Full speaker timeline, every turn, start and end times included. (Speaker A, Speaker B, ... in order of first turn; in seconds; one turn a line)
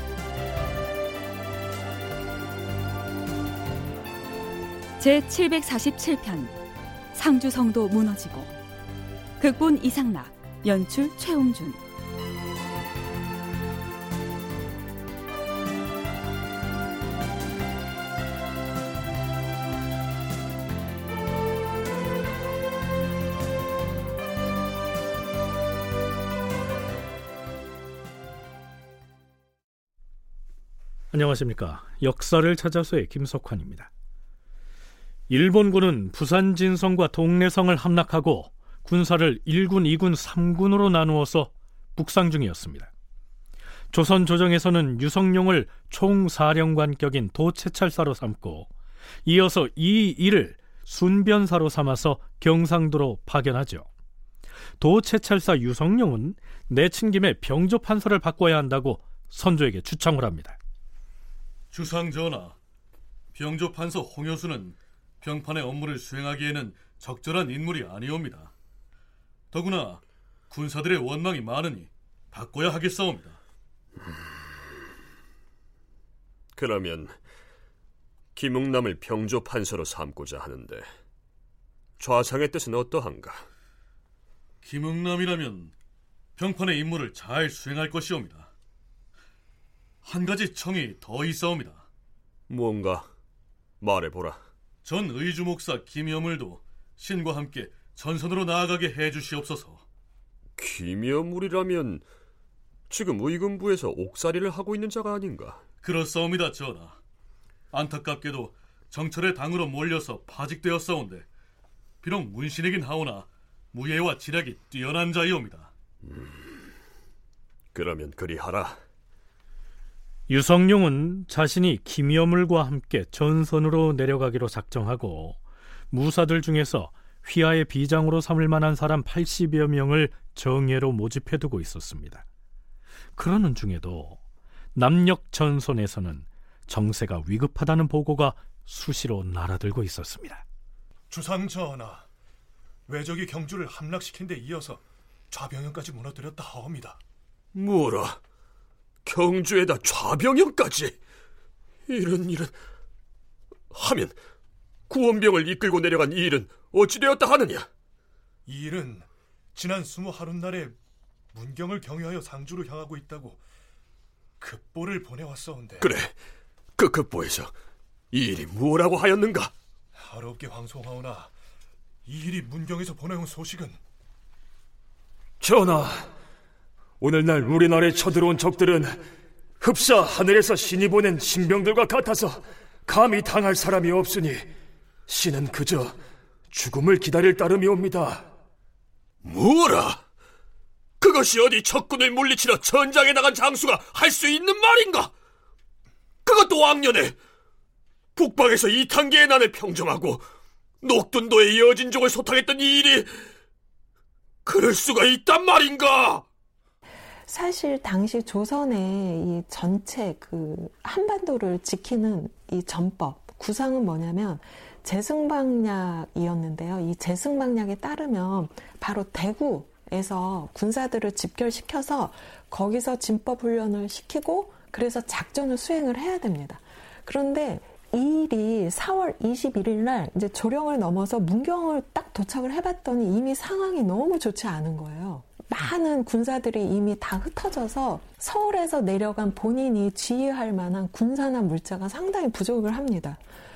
Speaker A: 5.0-6.5
Speaker A: 7.1-8.5
Speaker A: 9.4-11.8
Speaker B: 31.1-33.9
Speaker B: 35.3-42.9
Speaker B: 43.9-48.7
Speaker B: 49.2-53.9
Speaker B: 54.8-60.6
Speaker C: 61.7-62.5
Speaker C: 63.3-68.5
Speaker C: 69.5-73.4
Speaker D: 76.5-77.2
Speaker D: 78.3-80.9
Speaker D: 82.0-83.5
Speaker C: 84.6-85.7
Speaker C: 86.4-88.5
Speaker C: 90.0-91.8
Speaker D: 92.5-93.1
Speaker D: 93.8-94.4
Speaker C: 94.8-99.8
Speaker D: 100.6-102.0
Speaker D: 102.9-105.6
Speaker C: 105.8-107.0
Speaker C: 107.7-111.3
Speaker C: 112.0-115.7
Speaker D: 117.7-118.8
Speaker B: 120.3-125.4
Speaker B: 125.9-132.2
Speaker B: 133.2-134.2
Speaker B: 134.7-140.4
Speaker E: 141.1-142.1
Speaker E: 142.9-147.0
Speaker D: 147.5-148.2
Speaker D: 149.0-151.0
Speaker D: 151.9-152.6
Speaker D: 153.7-154.2
Speaker D: 154.9-157.7
Speaker E: 158.4-160.7
Speaker E: 161.3-163.4
Speaker E: 164.4-165.8
Speaker D: 165.8-166.1
Speaker D: 166.8-167.5
Speaker D: 168.1-169.5
Speaker E: 170.0-171.3
Speaker E: 172.1-173.8
Speaker F: 175.4-176.1
Speaker F: 177.0-179.0
Speaker F: 179.6-184.5
Speaker F: 185.1-186.0
Speaker F: 186.5-188.3
Speaker D: 189.2-190.0
Speaker D: 191.0-195.1
Speaker D: 196.2-197.1
Speaker D: 198.2-200.3
Speaker D: 200.8-203.1
Speaker D: 204.4-206.2
Speaker G: 207.3-243.2